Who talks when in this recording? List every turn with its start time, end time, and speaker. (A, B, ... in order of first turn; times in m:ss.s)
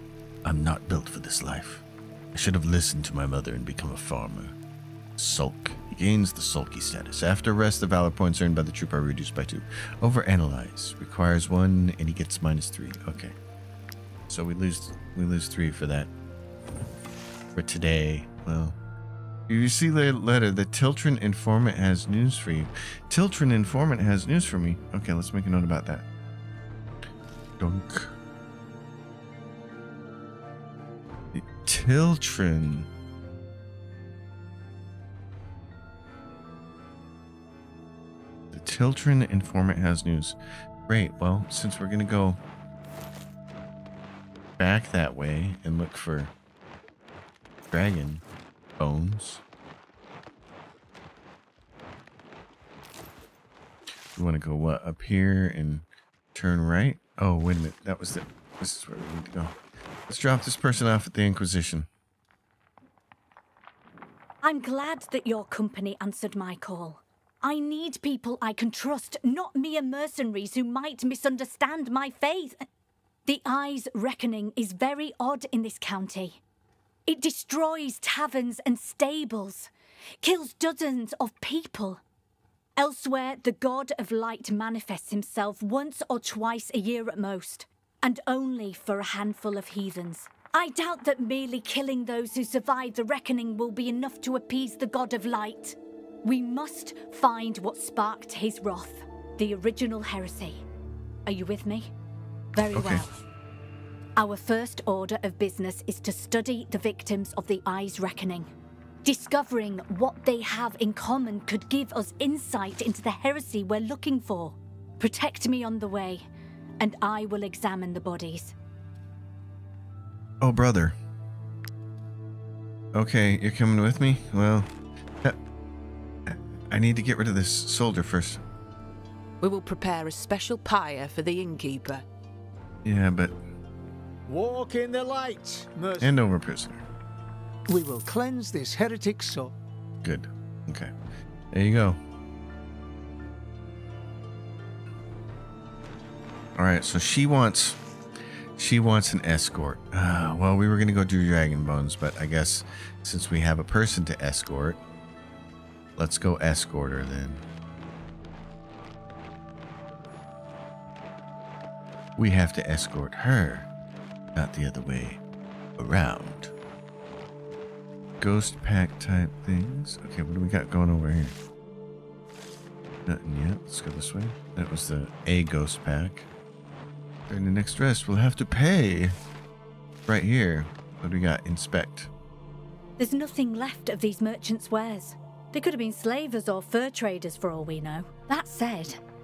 0:00.4-0:04.6 A
0:05.2-0:13.3 A
0:14.3-0:16.1 A
0:17.5-0:18.8 A
0:19.5-0:26.0 A
0:27.6-0:28.1 A
0:31.3-0:32.9 A
0:38.5-0:42.4 A
0:44.6-0:46.3 A
0:47.7-0:48.2 A
0:48.8-0:49.4 A
0:54.2-0:59.6 A
1:00.1-1:01.9 A
1:04.4-1:12.6 B
1:13.2-1:16.4 B
1:17.1-1:19.7 B
1:20.2-1:22.0 B
1:22.8-1:40.6 B
1:41.2-1:41.9 B
1:42.5-1:43.1 B
1:42.7-1:43.0 A
1:44.2-1:48.5 B
1:49.0-1:56.2 B
1:56.8-1:58.5 B
2:00.4-2:01.0 A
2:02.9-2:04.7 A
2:06.3-2:08.4 A
2:09.4-2:12.0 C
2:12.8-2:13.4 A
2:14.3-2:16.1 D
2:16.0-2:16.8 A
2:17.7-2:19.5 D
2:20.0-2:20.9 A
2:21.5-2:22.0 A
2:26.6-2:27.8 A
2:28.6-2:34.8 A
2:36.0-2:37.4 A
2:42.2-2:43.7 A
2:44.3-2:45.2 A
2:45.8-2:46.5 A
2:48.2-2:51.4 A
2:53.0-2:56.3 A
2:57.3-2:59.2 A
3:00.1-3:02.1 A
3:03.0-3:09.0 B